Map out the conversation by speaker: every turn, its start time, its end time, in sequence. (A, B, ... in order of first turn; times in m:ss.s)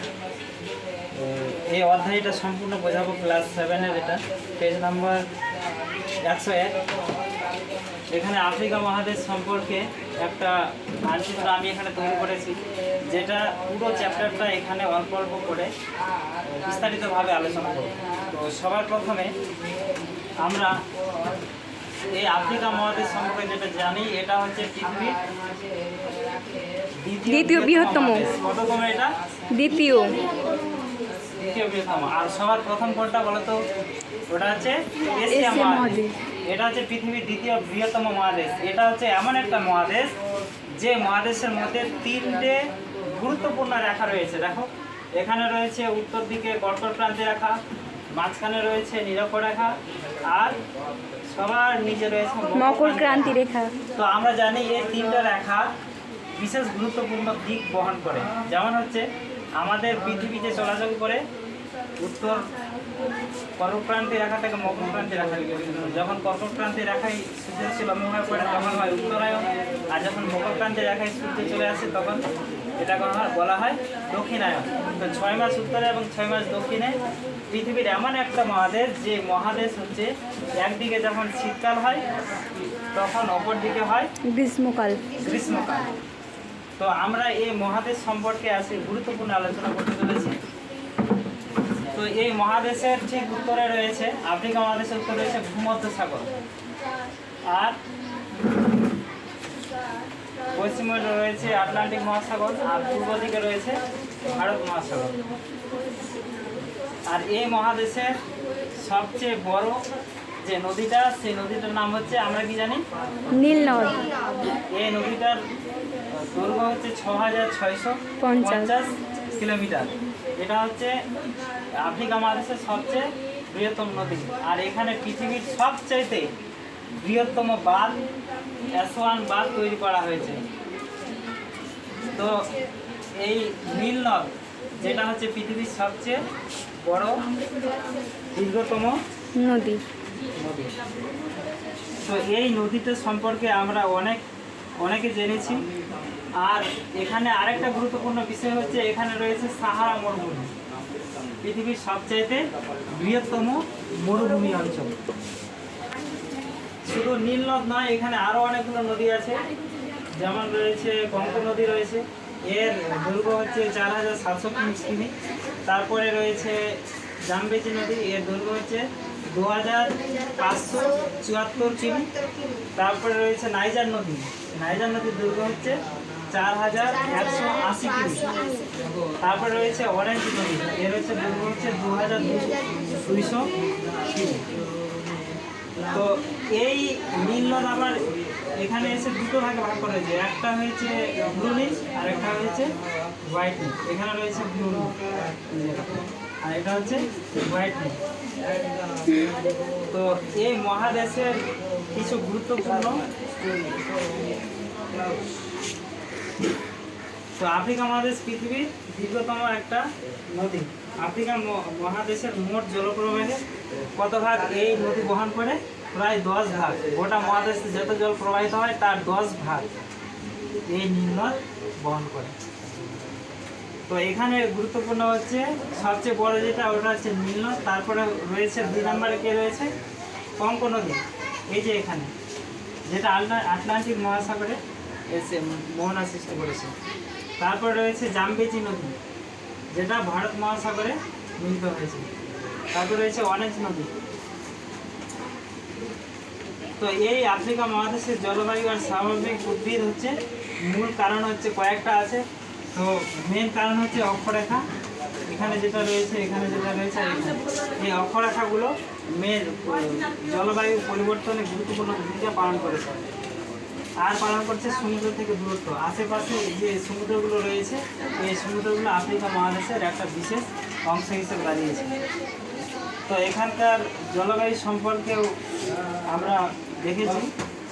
0:01.1-0:05.3 A
0:06.2-0:06.8 A
0:08.1-0:15.7 A
0:16.4-0:19.4 A
0:20.4-0:20.8 A
0:22.1-0:25.2 A
0:27.0-0:29.2 A
0:27.3-0:28.2 B
0:29.5-0:30.3 B
0:31.4-0:33.6 A
0:34.3-0:40.2 A
0:35.3-0:36.1 B
0:40.8-0:47.6 A
0:48.2-0:49.8 A
0:50.3-0:50.6 A
0:51.3-0:53.4 A
0:52.6-0:53.7 B
0:53.9-0:55.7 A
0:56.4-0:59.0 A
0:59.6-1:01.2 A
1:02.0-1:02.5 A
1:03.6-1:12.2 A
1:12.8-1:22.0 A
1:22.9-1:24.1 A
1:24.3-1:25.2 B
1:25.2-1:26.0 A
1:26.8-1:30.4 A
1:31.9-1:36.3 A
1:37.5-1:37.8 A
1:40.5-1:45.2 A
1:47.1-1:48.2 A
1:48.8-1:49.8 A
1:50.4-1:52.8 A
1:53.3-1:54.1 B
1:54.7-1:55.4 A
1:56.1-2:00.9 A
1:58.2-1:58.7 B
2:01.8-2:06.3 A
2:07.0-2:08.0 A
2:08.8-2:10.4 A
2:12.1-2:12.4 A
2:13.2-2:16.2 A
2:16.8-2:17.3 A
2:18.3-2:19.0 A
2:19.4-2:19.8 B
2:20.4-2:20.8 A
2:22.0-2:24.2 A
2:24.8-2:25.7 A
2:26.4-2:30.5 A
2:31.4-2:35.0 A
2:36.8-2:39.5 A
2:40.1-2:45.1 A
2:45.7-2:52.1 A
2:52.8-2:58.3 A
2:59.2-3:04.4 A
3:05.9-3:08.0 A
3:08.6-3:12.7 A
3:13.2-3:18.0 A
3:19.9-3:21.4 A
3:21.9-3:23.0 A
3:27.4-3:33.4 A
3:34.0-3:39.7 A
3:40.7-3:42.4 A
3:43.9-3:49.7 A
3:50.4-3:52.1 A
3:52.9-3:54.6 A
3:55.1-3:56.7 A
3:57.4-3:59.0 A
3:59.7-4:02.1 A
4:02.7-4:03.9 A
4:06.8-4:14.6 A
4:15.3-4:23.0 A
4:24.0-4:31.9 A
4:33.1-4:35.3 A
4:36.1-4:37.3 A